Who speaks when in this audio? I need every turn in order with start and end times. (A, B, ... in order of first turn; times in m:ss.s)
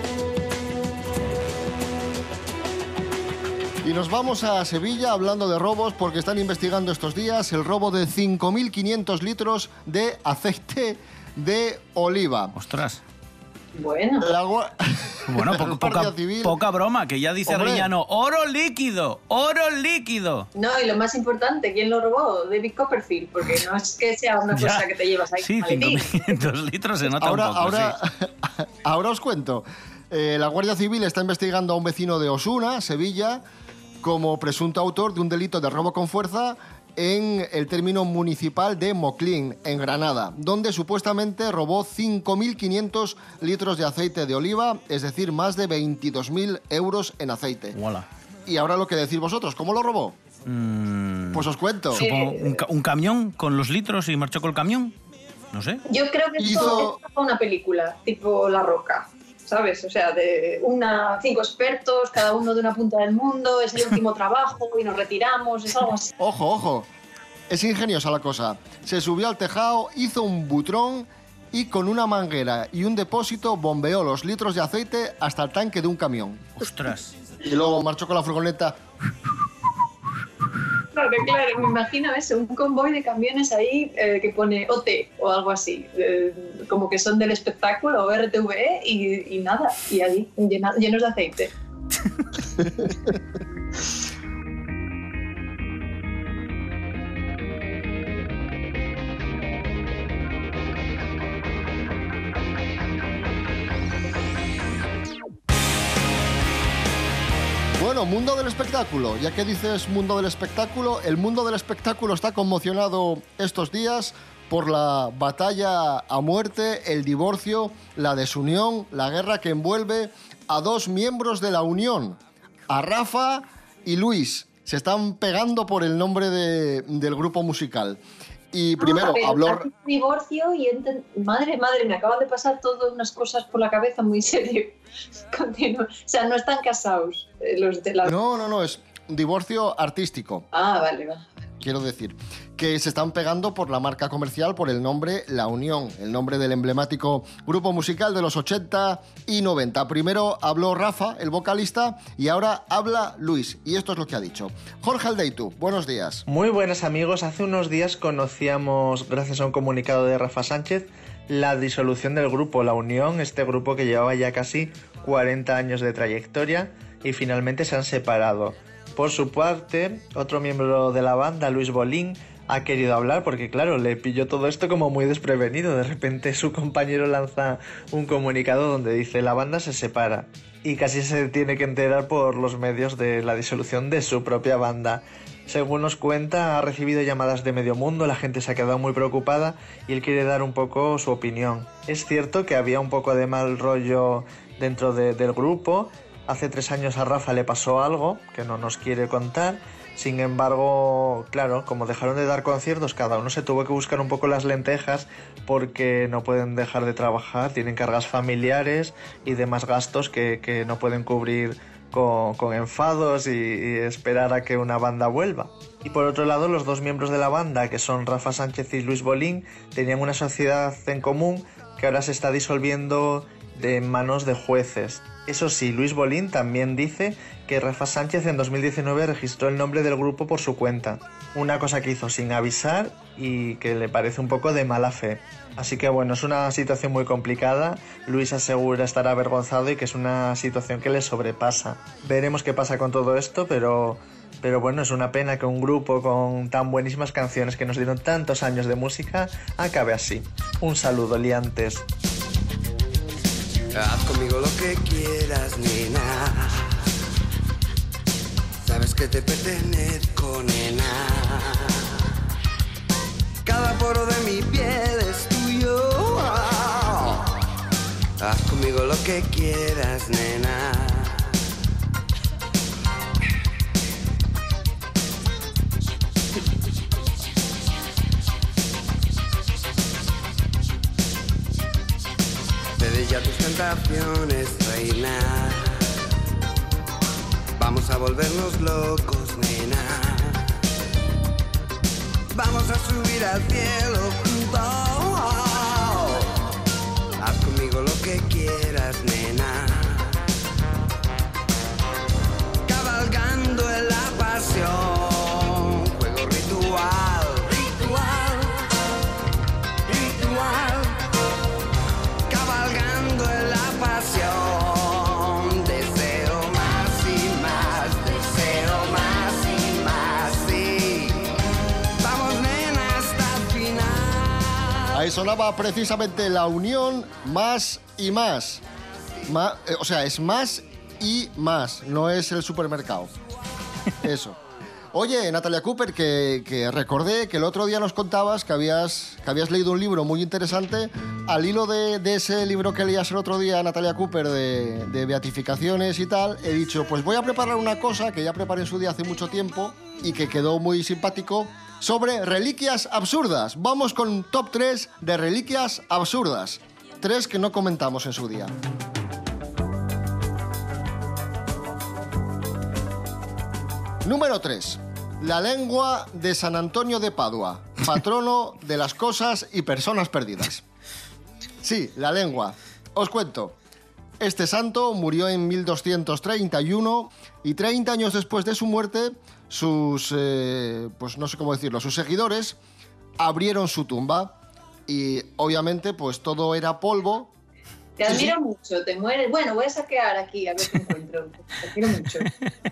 0:03.8-0:12.5 A
0:12.6-0:13.0 B
0:13.8-0:14.3 C
0:14.2-0:16.6 A
0:15.3-0:20.5 B
0:17.5-0:17.9 A
0:20.6-0:26.2 C
0:24.5-0:24.8 B
0:25.4-0:28.0 B
0:27.1-0:33.4 A
0:34.0-0:47.8 A
0:47.8-0:48.1 B
0:48.5-0:50.2 A
0:50.5-0:54.9 B
0:51.3-0:52.1 A
0:52.0-0:52.6 C
0:55.5-0:55.8 B
0:55.9-1:06.1 C
0:56.4-0:57.0 A
1:06.2-1:06.9 A
1:07.5-1:16.5 A
1:16.6-1:17.1 B
1:17.4-1:18.8 A
1:20.9-1:31.5 C
1:47.8-2:02.2 A
2:02.7-2:08.0 A
2:08.5-2:09.7 A
2:08.8-2:14.8 C
2:15.3-2:18.1 C
2:18.0-2:20.5 A
2:20.5-2:21.3 C
2:21.6-2:36.2 A
2:36.3-4:11.8 D
4:13.8-4:16.7 E
4:18.7-4:21.8 E
4:23.4-4:27.4 E
4:28.2-4:31.3 E
4:42.8-4:45.8 E
4:47.6-4:50.5 E
4:52.3-4:56.5 E
4:57.2-5:00.2 E
5:02.7-5:08.6 E
5:09.9-5:11.0 E
5:12.3-5:21.3 E
5:22.0-5:24.8 E
5:24.9-5:28.6 A
5:29.3-5:33.1 A
5:34.0-5:34.4 A
5:34.9-5:58.5 A
6:04.0-6:10.6 A
6:11.6-6:13.6 A
6:14.2-6:22.6 A
6:23.2-6:24.4 A
6:24.9-6:27.3 A
6:28.0-6:32.3 C
6:28.1-6:28.3 A